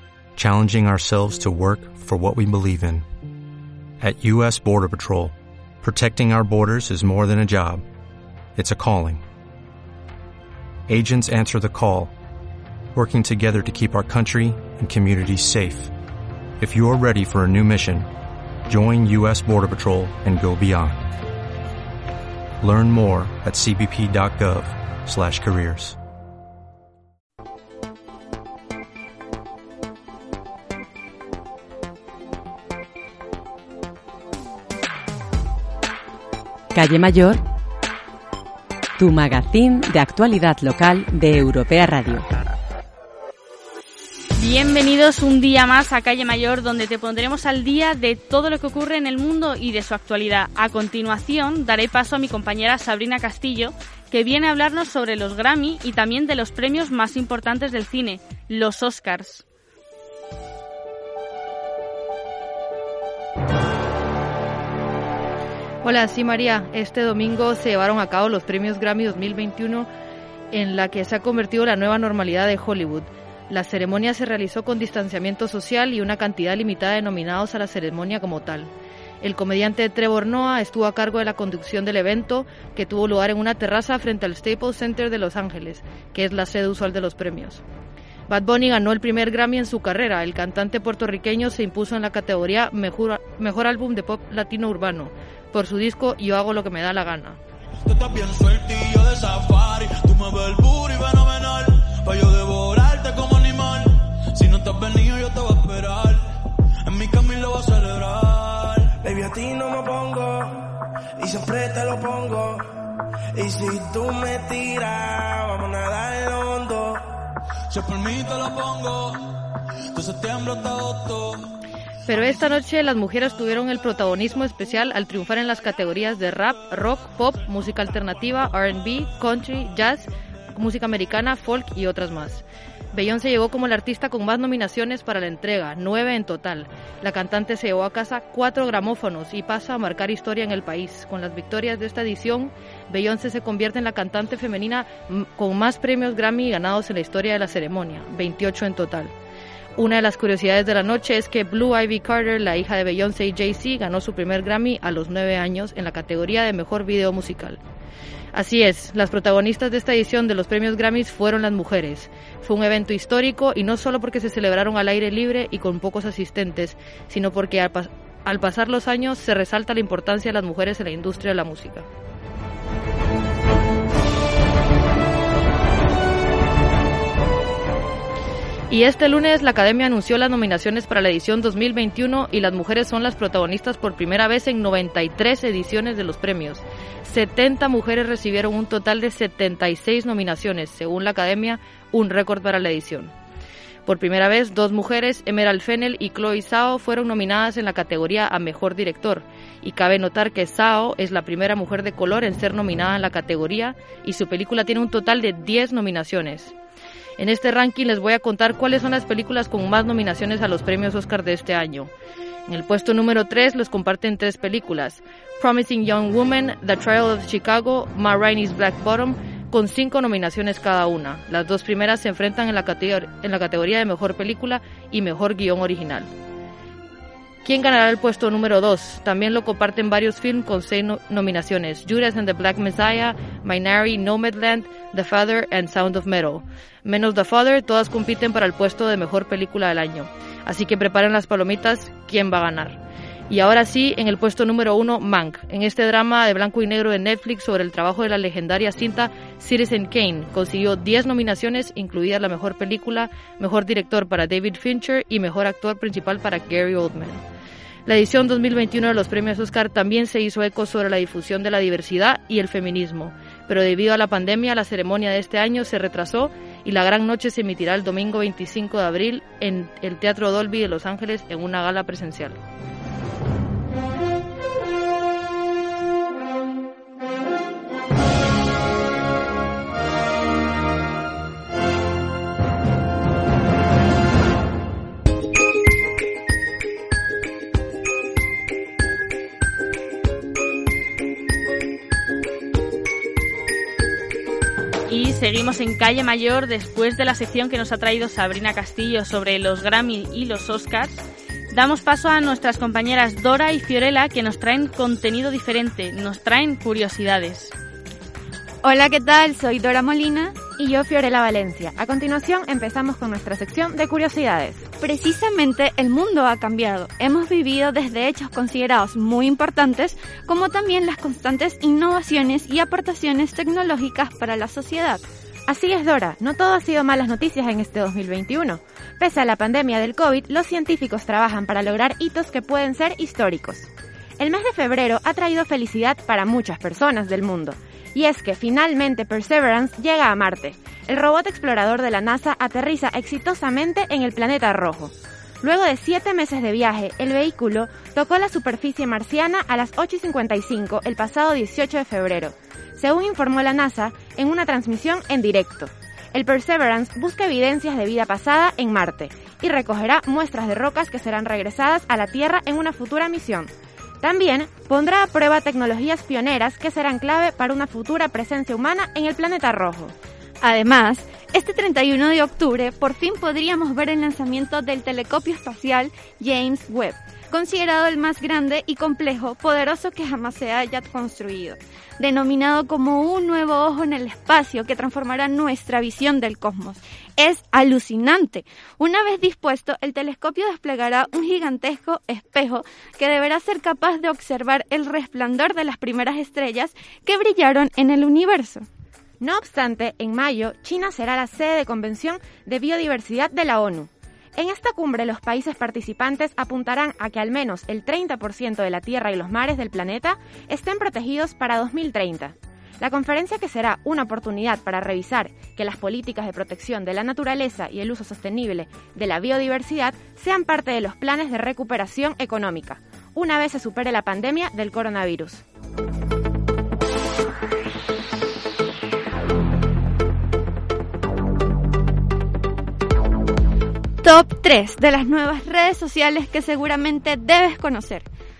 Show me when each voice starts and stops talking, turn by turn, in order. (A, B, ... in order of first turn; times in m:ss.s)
0:00.4-0:03.0 A
0:04.0-0:07.8 A
0:08.5-0:09.2 A
0:10.9-0:12.1 A
0:12.9-0:15.9 A
0:16.6-0:18.1 A
0:18.7-0:21.1 A
0:22.6-0:26.0 A
0:36.7-0:37.4 B
0:39.0-0:42.2 B
0:44.4-0:59.4 C
1:05.8-1:09.9 D
1:10.5-1:27.6 D
1:28.3-1:37.4 D
1:37.9-1:46.2 E
1:46.9-1:48.8 E
1:49.0-1:52.7 F
1:53.3-1:57.2 F
1:57.7-1:59.1 E
2:00.0-2:01.4 E
2:02.1-2:29.1 D
2:29.8-2:37.6 D
2:38.3-2:51.8 D
2:58.7-3:13.1 D
3:13.8-3:26.5 D
3:27.2-3:31.9 D
3:32.5-3:46.1 D
3:47.4-4:17.2 D
4:17.8-4:32.4 D
4:54.9-5:07.5 C
5:08.6-5:10.4 G
5:10.6-5:14.7 H
5:14.8-5:25.0 G
5:25.5-6:09.9 H
6:10.4-6:38.6 G
6:39.2-7:05.4 H
7:14.0-7:18.1 G